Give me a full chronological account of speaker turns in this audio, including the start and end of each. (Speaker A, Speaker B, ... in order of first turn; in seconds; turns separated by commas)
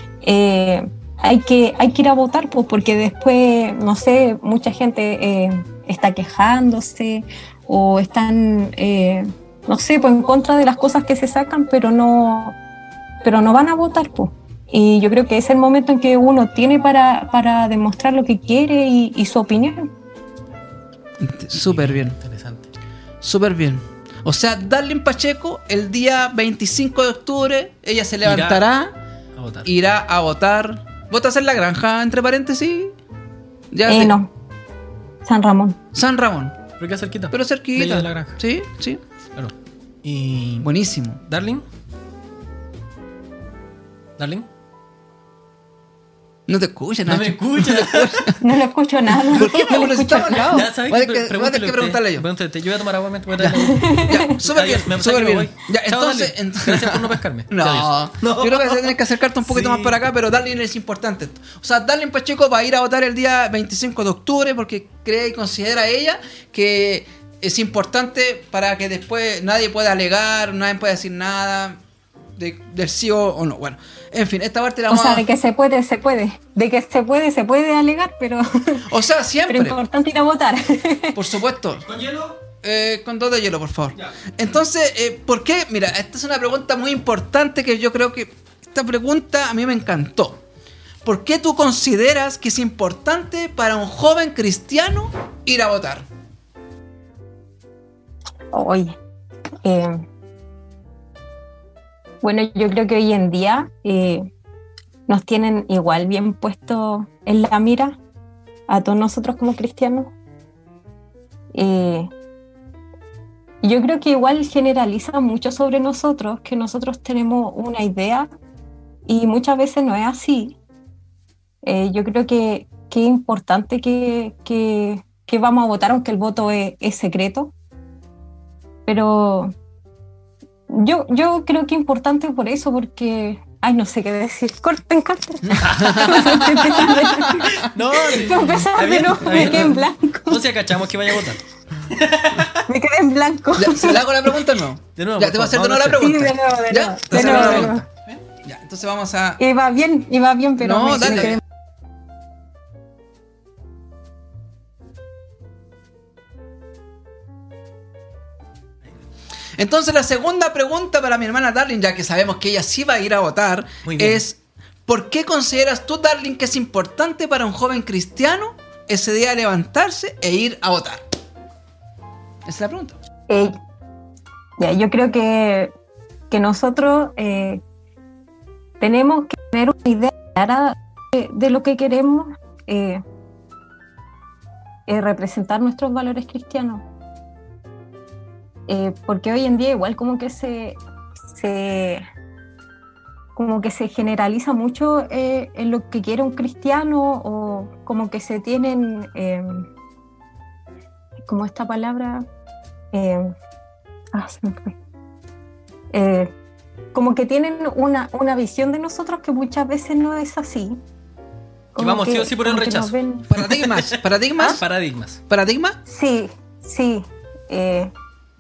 Speaker A: 0.2-12.6, Speaker A: 13.2-19.9, Speaker B: 21.2-22.2, Speaker C: 21.7-22.7, Speaker B: 23.2-29.0, Speaker C: 28.2-28.6, Speaker C: 29.4-29.7, Speaker B: 29.6-33.0, Speaker B: 33.7-34.2, Speaker A: 33.9-34.3, Speaker A: 35.3-35.8, Speaker B: 35.9-36.6, Speaker C: 36.8-38.4, Speaker B: 37.3-39.0, Speaker C: 40.0-40.7, Speaker B: 40.6-41.2, Speaker C: 41.2-41.6, Speaker C: 44.2-44.5, Speaker B: 46.5-48.4, Speaker C: 47.1-48.4, Speaker A: 48.4-50.7, Speaker C: 49.2-60.0, Speaker B: 49.3-52.3, Speaker B: 53.4-71.8, Speaker A: 53.6-54.3, Speaker B: 72.4-75.2, Speaker A: 74.9-78.9, Speaker B: 78.9-79.8, Speaker A: 79.5-81.2, Speaker B: 81.2-81.8, Speaker C: 81.9-82.4, Speaker B: 82.6-90.4, Speaker B: 91.0-96.1, Speaker A: 98.5-99.0, Speaker A: 99.6-100.0, Speaker A: 102.2-104.3, Speaker A: 105.1-108.0, Speaker A: 108.7-110.1, Speaker A: 111.5-112.1, Speaker A: 113.6-118.3, Speaker A: 119.1-120.6, Speaker A: 121.6-127.5, Speaker A: 128.9-129.5, Speaker A: 130.7-140.4, Speaker B: 135.4-137.7, Speaker C: 135.6-142.6, Speaker A: 142.7-144.1, Speaker B: 143.6-147.8, Speaker C: 145.0-146.3, Speaker A: 146.0-147.8, Speaker C: 147.1-148.2, Speaker B: 148.4-149.4, Speaker A: 149.4-151.4, Speaker B: 150.6-151.4, Speaker B: 159.6-171.0, Speaker C: 163.8-164.2, Speaker B: 172.5-173.0, Speaker A: 173.3-173.6, Speaker A: 174.6-175.7, Speaker A: 176.3-177.6, Speaker A: 178.8-183.0, Speaker A: 184.9-186.8, Speaker A: 188.7-192.1, Speaker A: 193.4-199.7, Speaker A: 201.2-202.3, Speaker A: 202.9-203.3, Speaker A: 204.1-204.8, Speaker A: 205.9-206.3, Speaker A: 206.9-210.8, Speaker A: 211.8-213.3, Speaker C: 211.8-215.2, Speaker B: 213.3-214.7, Speaker B: 215.3-215.8, Speaker A: 215.9-217.9